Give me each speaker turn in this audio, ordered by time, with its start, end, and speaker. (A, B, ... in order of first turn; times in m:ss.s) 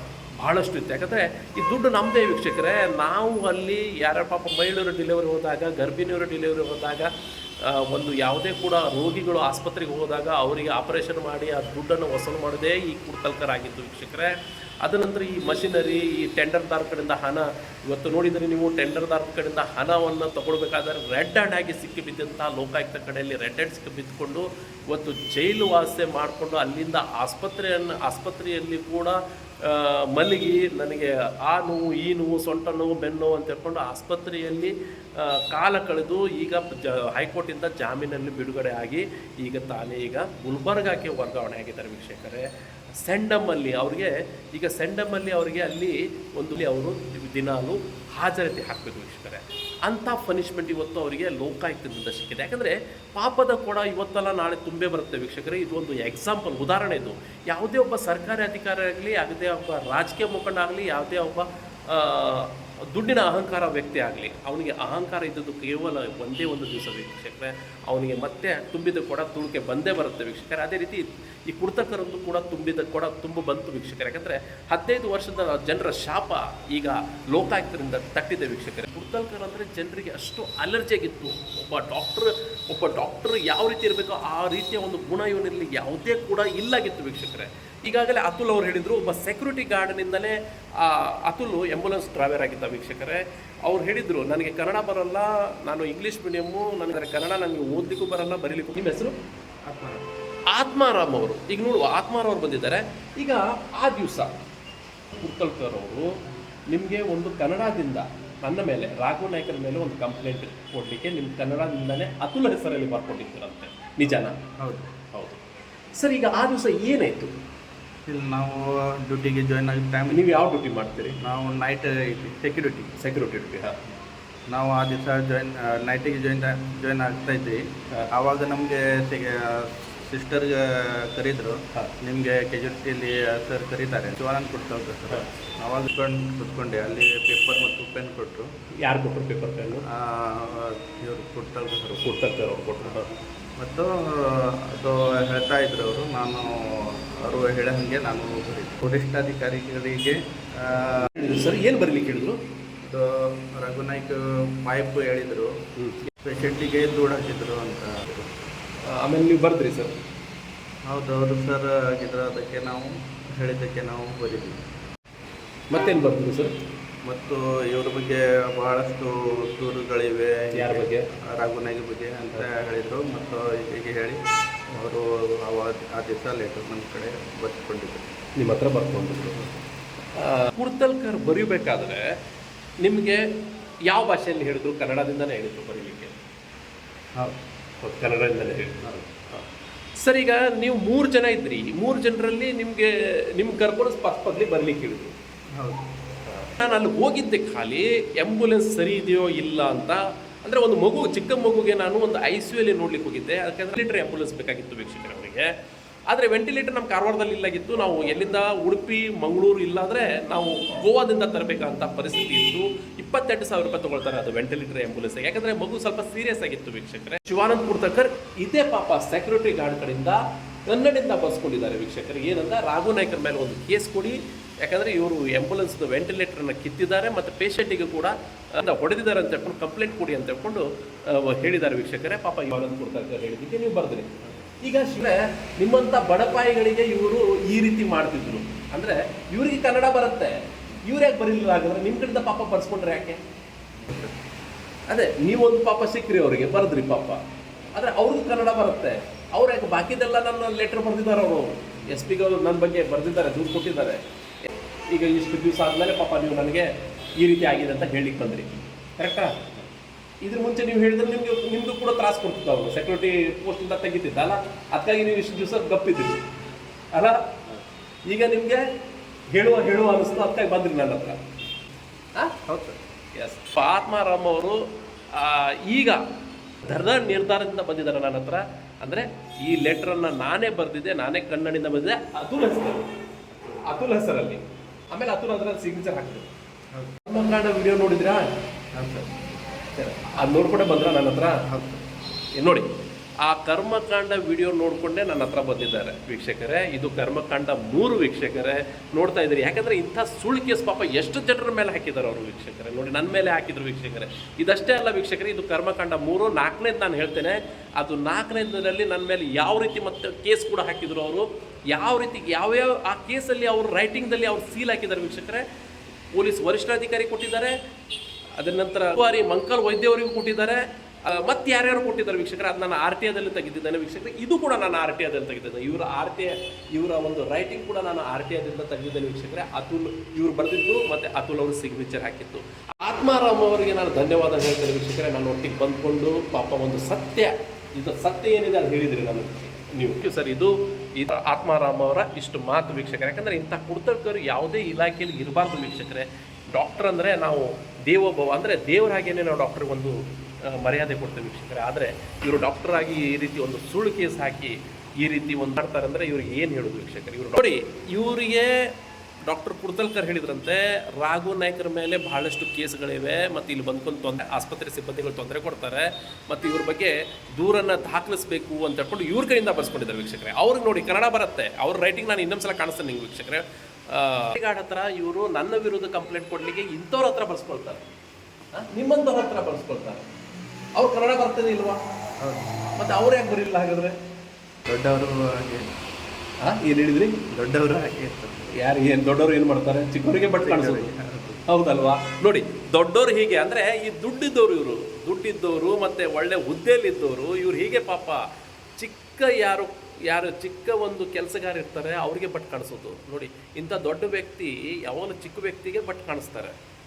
0:00.4-0:07.1 A
0:07.6-0:14.3 A
0:14.8-0:42.5 A
0:43.0-1:39.1 A
1:40.5-1:44.3 A
1:45.1-1:46.1 A
1:46.7-1:54.4 A
1:54.6-1:54.9 B
1:55.1-1:55.4 A
1:56.0-1:57.3 A
1:58.1-2:00.4 B
2:00.1-2:01.2 A
2:01.2-2:02.9 B
2:03.0-2:03.8 A
2:04.5-2:18.5 B
2:18.8-2:19.8 A
2:19.9-2:22.2 B
2:21.9-2:23.1 A
2:23.6-2:31.2 B
2:31.0-2:32.4 A
2:32.8-2:35.6 B
2:35.8-2:36.0 A
2:36.2-2:38.3 B
2:38.9-2:39.9 A
2:40.9-2:44.6 B
2:45.7-2:46.5 A
2:47.0-2:54.2 B
2:50.5-2:51.0 A
2:54.7-2:58.1 B
2:58.4-2:59.4 A
3:00.2-3:02.0 A
3:02.8-3:03.2 A
3:03.8-3:06.2 A
3:07.8-3:08.8 A
3:10.0-3:15.1 A
3:15.6-3:15.8 B
3:16.2-3:25.5 A
3:26.1-4:03.2 A
4:03.8-4:04.1 B
4:04.9-4:07.2 A
4:07.7-4:19.5 A
4:20.2-4:26.3 A
4:26.9-4:27.3 A
4:28.1-4:28.6 A
4:29.3-4:31.2 A
4:32.5-4:32.8 B
4:33.1-4:36.0 A
4:36.6-4:42.9 A
4:43.6-4:46.3 A
4:47.0-4:48.3 A
4:49.7-4:51.4 A
4:52.3-4:52.7 A
4:53.2-5:15.4 A
5:16.1-5:17.5 A
5:18.4-6:17.8 A
6:18.5-6:20.0 A
6:20.8-6:21.8 A
6:22.2-6:22.5 B
6:22.7-6:23.9 A
6:24.7-6:25.7 B
6:26.4-6:27.3 A
6:27.3-6:28.5 B
6:28.5-6:30.9 A
6:30.4-6:31.4 B
6:31.5-6:38.2 A
6:38.8-6:46.5 A